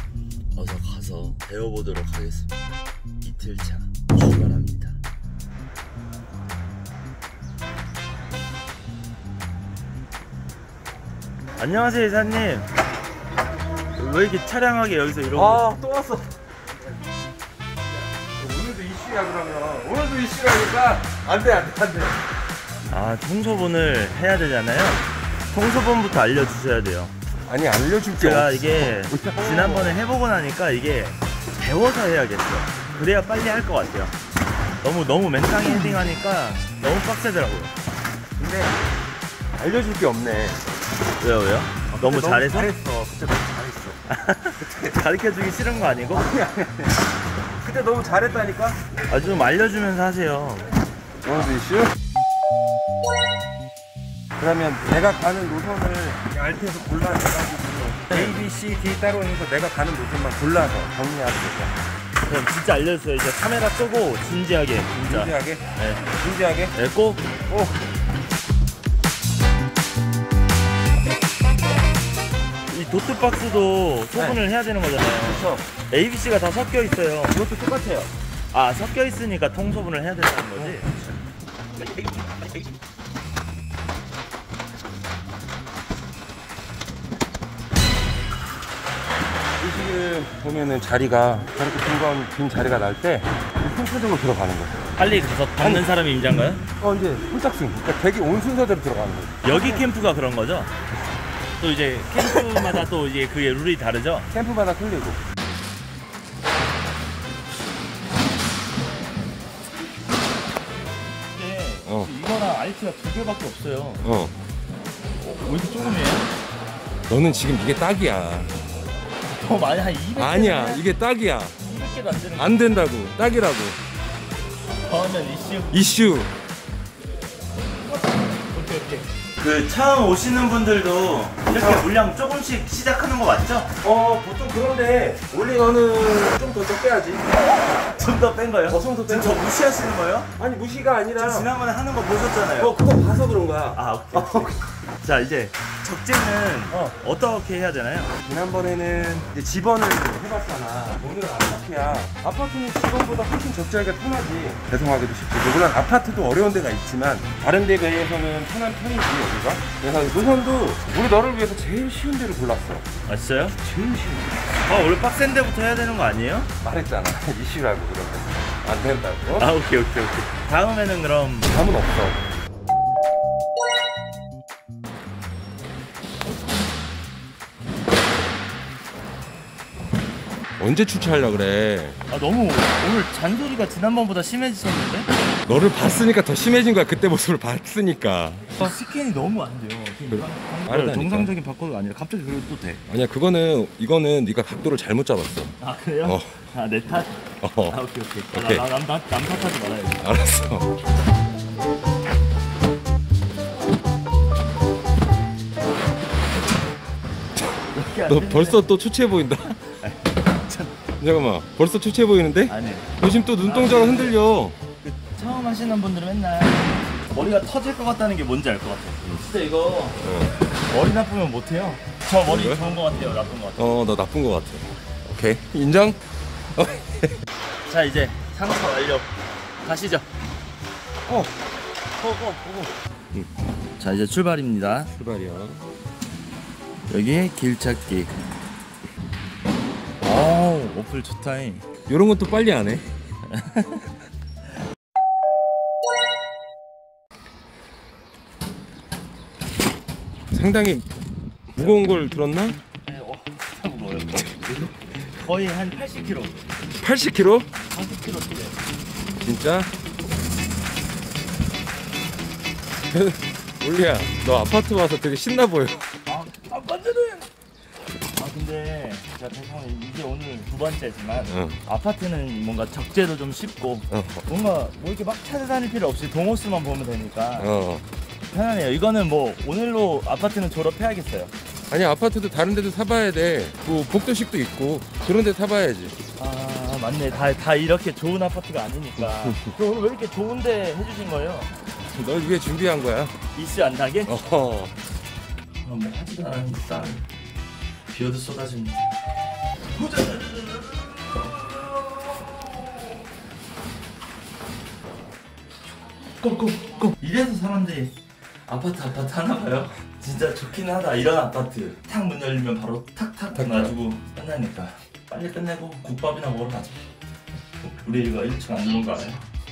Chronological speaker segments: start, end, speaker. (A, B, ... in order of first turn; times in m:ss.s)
0:00.5-0:02.5 A
0:03.2-0:05.0 A
0:11.6-0:12.7 A
0:14.0-0:15.6 A
0:15.3-0:16.3 B
0:18.4-0:22.2 B
0:22.9-0:27.2 A
0:27.5-0:30.0 B
0:28.2-0:34.2 A
0:34.8-0:37.7 A
0:38.4-0:38.8 B
0:39.6-0:40.6 B
0:41.2-0:42.7 A
0:41.9-0:44.0 B
0:44.1-0:46.3 A
0:44.6-0:45.0 B
0:46.1-0:47.0 B
0:47.6-0:48.8 B
0:49.1-0:50.7 A
0:51.2-0:52.0 B
0:54.4-1:01.8 B
0:58.1-0:58.4 A
1:02.2-1:06.1 A
1:04.9-1:06.7 B
1:06.7-1:07.3 A
1:07.5-1:07.8 B
1:12.7-1:17.4 A
1:14.1-1:14.4 B
1:15.2-1:15.7 B
1:17.3-1:18.1 B
1:18.5-1:20.9 A
1:20.6-1:21.2 B
1:29.6-1:35.0 B
1:35.0-1:36.7 A
1:35.6-1:35.9 B
1:36.8-1:39.9 B
1:39.4-1:40.7 A
1:41.6-1:44.3 A
1:42.2-1:42.5 B
1:44.3-1:45.3 B
1:51.3-1:54.0 A
1:51.9-1:52.1 B
1:54.0-1:54.4 B
1:55.2-1:56.3 A
1:57.1-1:58.6 B
1:59.3-2:00.9 A
2:00.2-2:01.6 B
2:01.6-2:02.6 A
2:02.4-2:03.8 B
2:04.8-2:05.8 A
2:05.7-2:06.3 B
2:08.5-2:13.8 A
2:11.5-2:11.9 B
2:13.8-2:17.3 B
2:17.9-2:20.3 A
2:18.7-2:19.5 B
2:20.4-2:21.5 B
2:21.2-2:22.8 A
2:22.6-2:24.7 B
2:23.7-2:28.2 A
2:26.7-2:27.0 B
2:28.2-2:42.9 B
2:43.1-2:43.6 A
2:43.6-2:44.5 B
2:44.7-2:46.5 A
2:46.6-2:49.5 B
2:49.3-2:51.5 A
2:51.5-2:52.2 B
3:00.6-3:02.0 B
3:02.1-3:05.1 A
3:05.5-3:08.7 B
3:08.6-3:12.8 A
3:10.1-3:11.3 B
3:12.9-3:16.4 B
3:15.6-3:20.0 A
3:17.4-3:17.8 B
3:18.3-3:18.7 B
3:20.0-3:20.7 B
3:27.7-3:28.6 A
3:28.1-3:29.6 B
3:29.7-3:30.8 A
3:31.0-3:34.6 B
3:32.5-3:34.2 A
3:34.8-3:40.0 A
3:40.0-3:40.4 B
3:40.6-3:43.8 A
3:42.2-3:42.6 B
3:43.6-3:46.0 B
3:46.6-3:47.2 B
3:47.7-3:49.1 A
3:49.6-3:50.1 A
3:51.1-3:51.3 B
3:52.0-3:52.5 A
3:52.1-3:53.3 B
3:53.8-3:54.9 A
3:54.9-3:55.7 B
3:56.9-3:58.2 A
4:00.0-4:01.7 A
4:01.9-4:02.9 B
4:03.3-4:03.9 A
4:10.3-4:10.9 B
4:11.5-4:12.6 B
4:12.9-4:16.4 A
4:16.8-4:17.5 B
4:17.7-4:18.6 A
4:19.2-4:19.7 B
4:22.9-4:25.9 B
4:26.1-4:27.3 A
4:28.1-4:37.5 A
4:31.3-4:31.6 B
4:33.9-4:34.2 B
4:37.4-4:37.9 B
4:38.3-4:41.3 A
4:41.7-4:46.0 B
4:46.2-4:51.5 A
4:49.3-4:49.5 B
4:51.9-4:53.2 B
4:53.3-4:54.2 A
4:54.1-4:54.8 B
4:55.6-4:57.1 A
4:57.9-4:58.9 A
4:59.7-5:02.6 A
5:06.2-5:08.0 A
5:08.5-5:16.9 A
5:13.4-5:13.7 B
5:17.6-5:19.3 A